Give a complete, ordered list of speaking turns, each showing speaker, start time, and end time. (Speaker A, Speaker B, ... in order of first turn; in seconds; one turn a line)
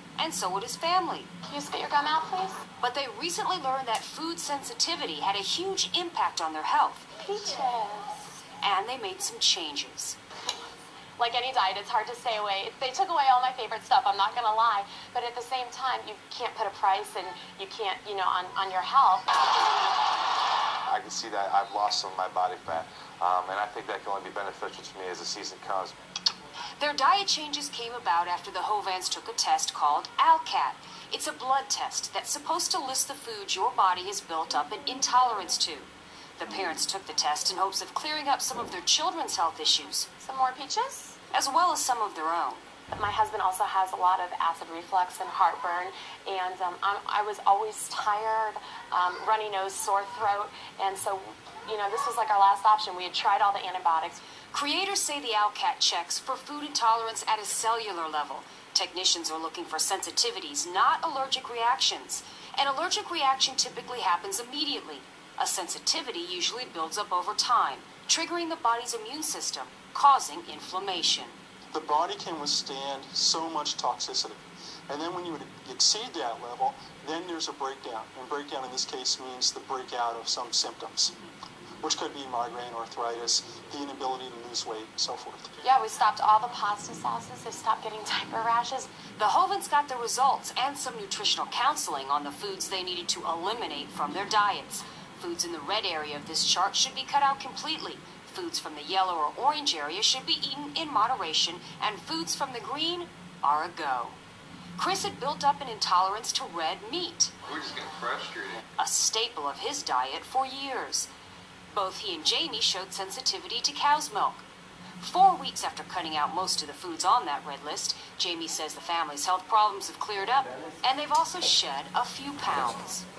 Speaker A: 0.2-1.3
Speaker B: 1.5-2.6
Speaker A: 2.8-7.1
Speaker B: 7.2-8.2
Speaker A: 8.6-10.2
Speaker B: 11.2-19.4
Speaker C: 20.9-25.9
Speaker A: 26.8-40.1
Speaker B: 40.2-41.2
Speaker A: 41.3-42.6
Speaker B: 42.9-54.2
Speaker A: 54.5-71.3
Speaker D: 71.7-81.1
Speaker D: 81.8-85.5
Speaker B: 85.6-89.0
Speaker A: 89.2-104.2
Speaker A: 104.8-107.3
Speaker C: 107.4-108.6
Speaker A: 108.8-111.1
Speaker A: 111.7-114.4
Speaker A: 115.0-123.0